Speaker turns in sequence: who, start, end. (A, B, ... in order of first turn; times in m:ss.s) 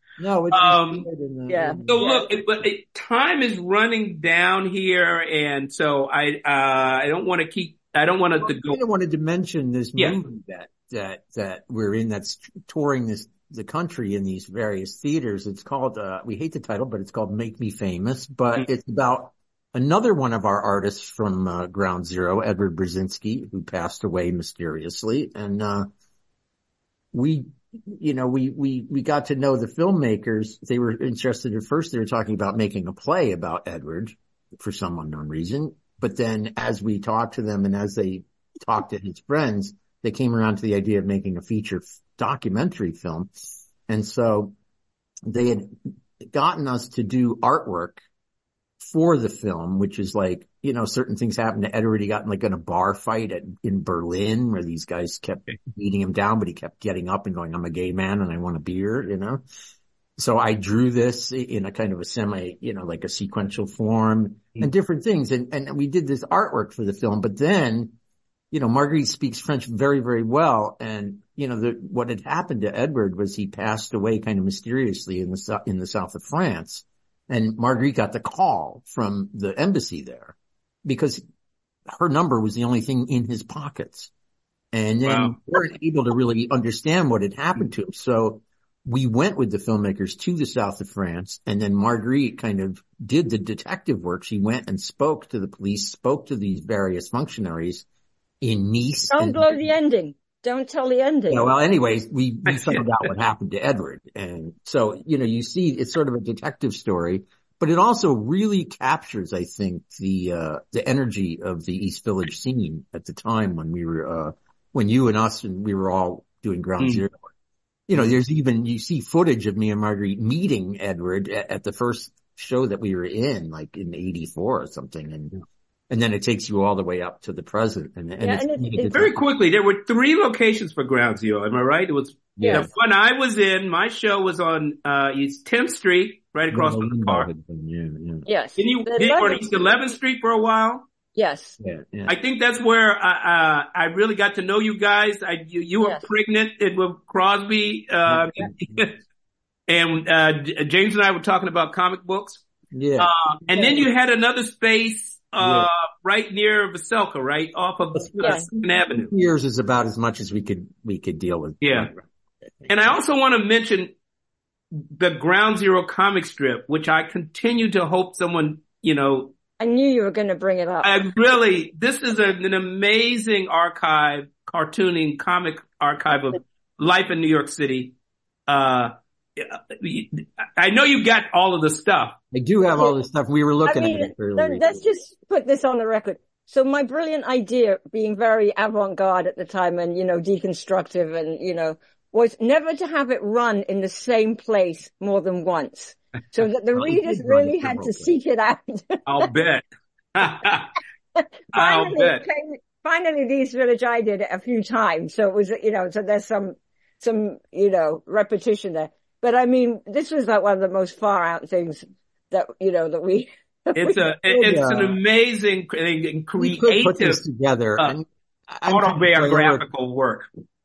0:00.2-0:01.9 A
0:00.5-0:01.1 B
0:01.5-0:02.3 C
0:01.9-0:08.8 B
0:08.4-0:25.9 A
0:27.1-0:43.3 A
0:43.9-0:44.5 A
0:45.3-0:48.0 A
0:48.8-0:59.4 A
1:00.2-1:07.9 A
1:08.5-1:21.2 A
1:21.9-1:24.1 A
1:24.7-1:37.8 A
1:25.0-1:25.4 B
1:38.4-1:39.6 A
1:39.1-1:41.5 C
1:41.3-1:57.2 A
1:42.5-1:42.9 B
1:57.9-2:05.4 A
2:05.9-2:09.2 A
2:08.2-2:09.0 C
2:08.9-2:17.3 B
2:12.4-2:12.7 A
2:12.4-2:12.7 C
2:16.5-2:18.3 A
2:18.2-2:19.6 C
2:18.6-2:20.8 B
2:21.1-2:21.6 C
2:21.6-2:22.1 A
2:22.1-2:28.9 B
2:28.1-2:28.8 A
2:29.7-2:32.4 B
2:32.7-2:33.8 A
2:33.0-2:39.1 B
2:33.5-2:33.8 C
2:35.4-2:35.7 A
2:37.9-2:38.5 A
2:39.1-2:42.0 A
2:41.6-2:41.9 B
2:42.6-2:42.9 A
2:42.7-2:43.9 B
2:44.7-2:49.3 B
2:49.6-2:51.0 C
2:50.8-2:57.9 B
2:58.5-3:02.2 B
3:02.3-3:04.7 A
3:03.6-3:19.2 C
3:16.7-3:18.1 A
3:19.0-3:19.6 B
3:20.2-3:20.7 B
3:21.2-3:34.1 C
3:21.5-3:22.2 B
3:33.8-3:37.2 B
3:34.3-3:35.0 A
3:36.4-3:39.6 A
3:38.7-3:40.3 B